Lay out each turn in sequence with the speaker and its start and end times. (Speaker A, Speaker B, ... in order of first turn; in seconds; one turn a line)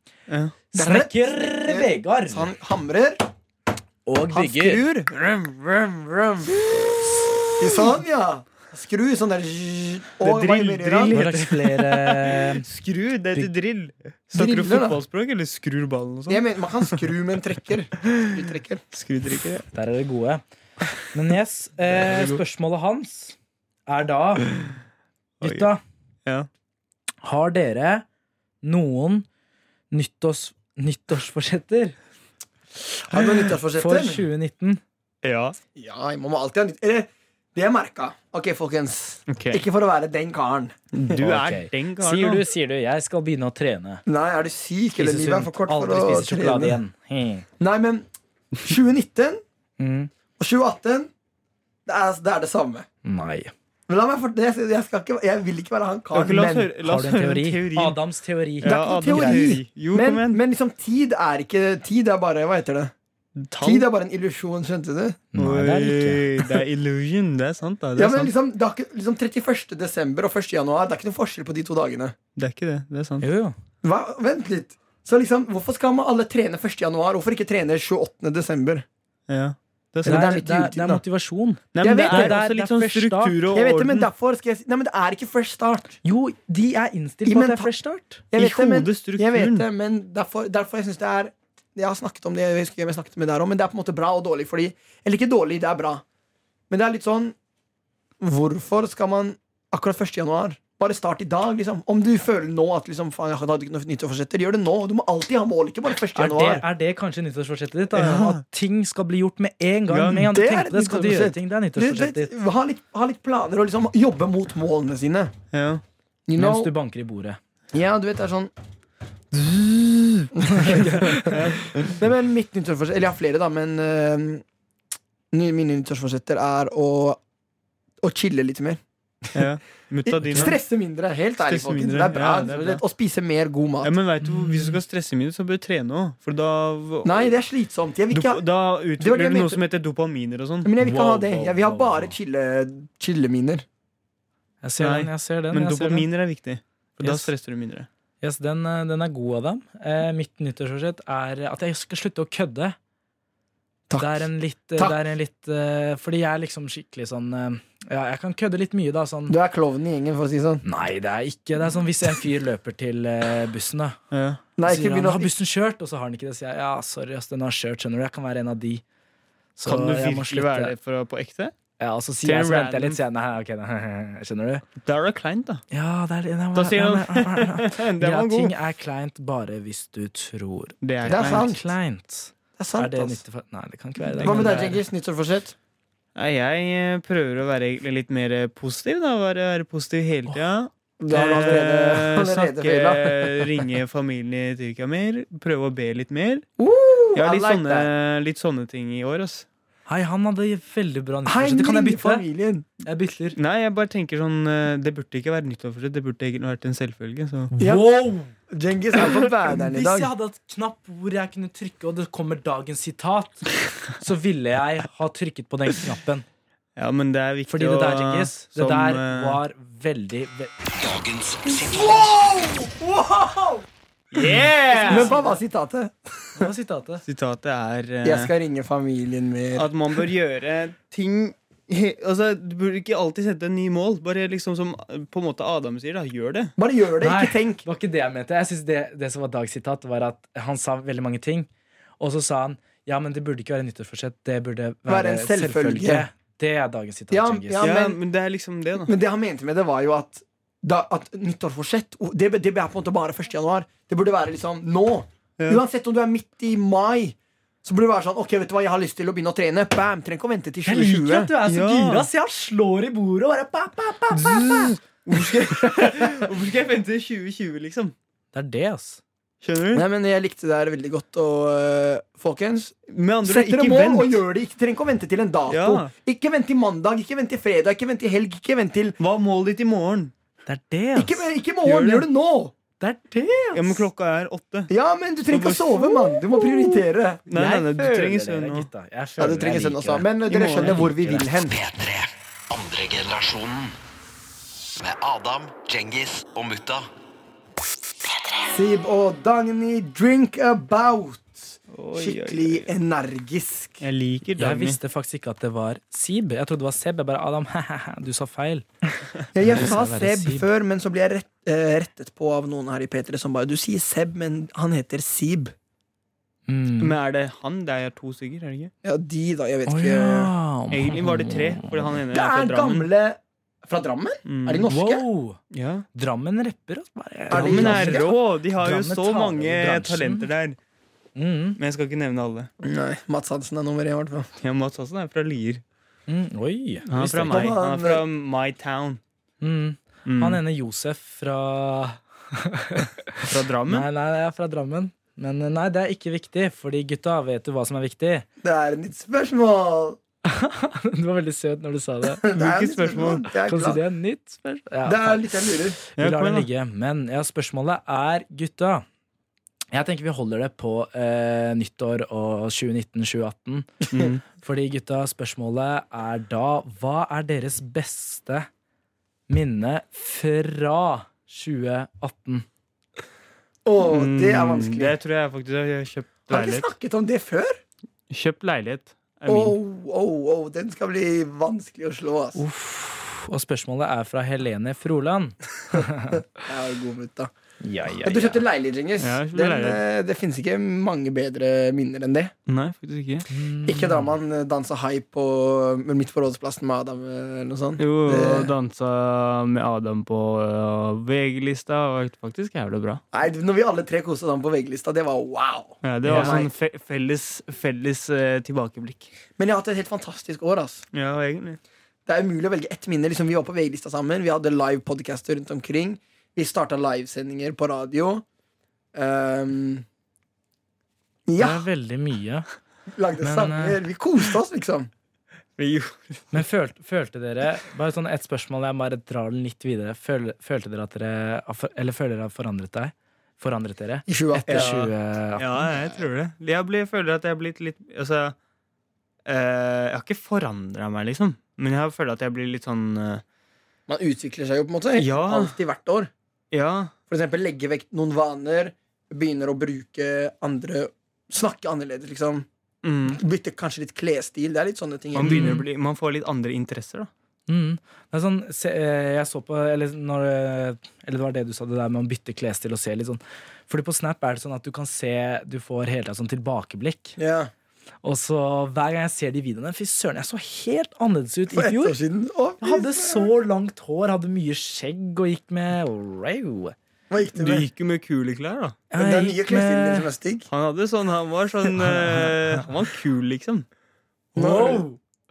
Speaker A: 0.3-0.6
Speaker B: 0.7-2.5
Speaker C: 0.8-3.2
Speaker B: 4.1-4.8
Speaker C: 4.3-5.0
Speaker A: 4.9-6.4
Speaker C: 6.5-6.8
Speaker C: 7.5-11.1
Speaker A: 10.2-17.0
Speaker B: 11.1-12.6
Speaker C: 14.3-15.0
Speaker C: 16.3-18.8
Speaker A: 18.9-19.6
Speaker B: 19.7-20.4
Speaker B: 21.1-23.4
Speaker A: 21.9-22.4
Speaker B: 23.9-24.5
Speaker A: 25.4-25.7
Speaker B: 25.4-25.8
Speaker B: 27.2-28.1
Speaker B: 28.6-29.3
Speaker B: 29.9-32.0
Speaker C: 33.1-34.3
Speaker B: 33.1-34.8
Speaker A: 35.2-35.6
Speaker C: 35.8-40.9
Speaker A: 39.3-39.6
Speaker A: 40.9-42.4
Speaker B: 41.2-44.0
Speaker C: 44.1-46.8
Speaker B: 45.0-47.5
Speaker C: 47.6-48.0
Speaker C: 48.6-49.4
Speaker B: 49.8-50.1
Speaker C: 50.4-51.1
Speaker C: 51.9-52.9
Speaker B: 53.0-53.5
Speaker C: 53.9-56.7
Speaker A: 56.1-58.0
Speaker B: 56.8-59.5
Speaker A: 58.6-60.4
Speaker C: 58.6-62.9
Speaker A: 63.4-63.9
Speaker C: 63.6-65.2
Speaker B: 65.3-66.3
Speaker A: 65.4-68.3
Speaker C: 68.0-72.1
Speaker A: 72.4-73.3
Speaker B: 73.2-73.6
Speaker C: 73.8-78.8
Speaker A: 79.3-80.3
Speaker C: 80.0-81.0
Speaker B: 80.0-83.4
Speaker A: 81.8-84.1
Speaker C: 81.8-82.4
Speaker C: 83.5-86.0
Speaker B: 86.0-88.2
Speaker C: 87.3-87.7
Speaker C: 88.3-96.0
Speaker A: 88.4-89.7
Speaker C: 96.7-97.4
Speaker C: 98.2-106.7
Speaker B: 106.1-112.3
Speaker A: 107.9-108.4
Speaker A: 109.9-110.3
Speaker C: 110.1-115.3
Speaker A: 115.5-115.8
Speaker C: 116.3-116.7
Speaker B: 116.4-117.4
Speaker C: 117.7-118.5
Speaker C: 120.3-124.4
Speaker B: 120.5-121.4
Speaker A: 121.2-121.9
Speaker C: 125.3-127.2
Speaker C: 128.0-128.8
Speaker A: 129.3-130.6
Speaker C: 130.1-133.9
Speaker A: 131.4-132.8
Speaker A: 133.8-137.3
Speaker B: 134.2-134.8
Speaker C: 137.1-138.4
Speaker A: 138.1-140.7
Speaker C: 139.0-139.6
Speaker C: 140.6-143.6
Speaker B: 140.8-142.2
Speaker B: 144.6-146.1
Speaker A: 144.8-147.9
Speaker B: 147.0-147.3
Speaker B: 148.2-152.8
Speaker C: 153.9-155.0
Speaker B: 154.0-159.4
Speaker C: 159.3-160.6
Speaker B: 160.6-164.0
Speaker A: 164.1-164.4
Speaker C: 164.6-165.3
Speaker B: 164.7-168.8
Speaker B: 169.6-170.7
Speaker A: 169.6-171.5
Speaker B: 171.8-174.6
Speaker A: 172.2-173.0
Speaker A: 174.8-175.6
Speaker B: 175.7-184.8
Speaker A: 176.5-178.5
Speaker A: 180.8-181.5
Speaker C: 181.1-181.7
Speaker C: 182.6-183.2
Speaker C: 184.2-185.6
Speaker A: 184.2-184.7
Speaker A: 186.1-196.4
Speaker C: 191.0-193.6
Speaker C: 196.6-197.9
Speaker A: 197.1-199.5
Speaker B: 199.9-202.2
Speaker C: 201.3-202.7
Speaker B: 202.8-203.4
Speaker A: 203.4-207.5
Speaker B: 207.5-208.3
Speaker C: 207.6-210.1
Speaker B: 209.5-216.2
Speaker A: 216.8-219.4
Speaker B: 217.5-220.5
Speaker D: 220.7-222.3
Speaker C: 221.6-223.6
Speaker A: 224.1-225.2
Speaker B: 224.2-225.3
Speaker C: 224.8-226.5
Speaker B: 226.3-227.0
Speaker A: 227.1-228.3
Speaker C: 228.0-230.0
Speaker A: 229.5-236.5
Speaker C: 236.6-237.6
Speaker B: 237.0-247.7
Speaker C: 244.9-246.1
Speaker C: 247.1-248.0
Speaker A: 247.6-248.9
Speaker C: 248.9-261.3
Speaker B: 260.6-264.7
Speaker A: 261.4-262.1
Speaker A: 264.1-267.9
Speaker B: 268.3-269.0
Speaker A: 269.4-269.9
Speaker C: 269.7-279.0
Speaker A: 272.9-274.2
Speaker A: 275.5-275.9
Speaker A: 279.0-280.1
Speaker B: 280.4-281.3
Speaker C: 280.9-282.6
Speaker A: 281.6-282.1
Speaker B: 282.8-283.8
Speaker A: 283.5-284.7
Speaker C: 284.7-287.2
Speaker A: 285.3-285.9
Speaker A: 287.3-288.7
Speaker B: 287.3-291.3
Speaker C: 289.2-291.6
Speaker A: 290.3-290.9
Speaker D: 291.4-293.8
Speaker D: 294.8-296.9
Speaker C: 298.5-303.8
Speaker A: 301.7-302.7
Speaker A: 303.8-304.8
Speaker B: 304.4-310.4
Speaker C: 309.3-315.5
Speaker B: 316.5-317.0
Speaker A: 316.8-318.7
Speaker C: 318.8-320.3
Speaker B: 319.6-322.0
Speaker A: 320.7-322.9
Speaker C: 322.1-325.1
Speaker A: 324.3-324.6
Speaker B: 324.7-325.4
Speaker A: 325.5-325.9
Speaker B: 325.9-330.3
Speaker C: 327.3-328.1
Speaker A: 327.3-330.6
Speaker B: 331.1-331.6
Speaker A: 331.6-332.5
Speaker C: 332.6-334.3
Speaker A: 334.4-335.6
Speaker B: 336.1-337.5
Speaker A: 336.9-339.0
Speaker C: 337.3-338.0
Speaker B: 339.4-348.3
Speaker A: 340.1-340.4
Speaker A: 343.3-343.9
Speaker C: 348.4-350.0
Speaker B: 350.2-352.2
Speaker C: 352.2-353.8
Speaker A: 352.3-353.3
Speaker B: 353.4-358.9
Speaker C: 354.8-355.8
Speaker A: 356.0-356.5
Speaker B: 359.7-368.5
Speaker A: 363.9-364.2
Speaker B: 369.3-372.4
Speaker C: 373.6-374.9
Speaker A: 373.8-376.7
Speaker C: 376.3-377.6
Speaker A: 378.1-379.6
Speaker C: 379.3-382.4
Speaker B: 382.4-386.2
Speaker C: 386.4-387.3
Speaker B: 387.6-388.4
Speaker C: 388.0-392.3
Speaker A: 389.0-389.8
Speaker A: 392.5-393.3
Speaker B: 393.3-394.1
Speaker C: 393.6-398.5
Speaker A: 397.8-403.0
Speaker C: 403.1-406.5
Speaker A: 405.8-409.1
Speaker B: 406.1-406.4
Speaker C: 409.4-410.8
Speaker A: 410.9-411.6
Speaker C: 412.1-418.2
Speaker C: 418.9-419.9
Speaker C: 421.3-421.7
Speaker B: 421.4-422.5
Speaker C: 422.9-424.9
Speaker B: 423.2-423.8
Speaker A: 425.6-426.4
Speaker B: 426.3-435.8
Speaker C: 434.1-434.9
Speaker A: 434.5-438.4
Speaker A: 439.3-443.2
Speaker C: 443.9-446.1
Speaker A: 445.0-445.6
Speaker A: 446.5-446.9
Speaker C: 447.1-452.5
Speaker A: 452.8-453.2
Speaker C: 453.1-455.5
Speaker A: 455.1-457.1
Speaker B: 455.2-455.6
Speaker B: 457.5-467.2
Speaker C: 467.2-467.5
Speaker B: 468.0-472.0
Speaker C: 471.5-473.3
Speaker B: 472.6-476.8
Speaker C: 477.1-477.6
Speaker A: 477.4-478.8
Speaker B: 478.9-480.1
Speaker C: 479.0-480.5
Speaker A: 480.5-483.6
Speaker B: 481.9-482.6
Speaker B: 484.4-485.0
Speaker C: 484.4-484.9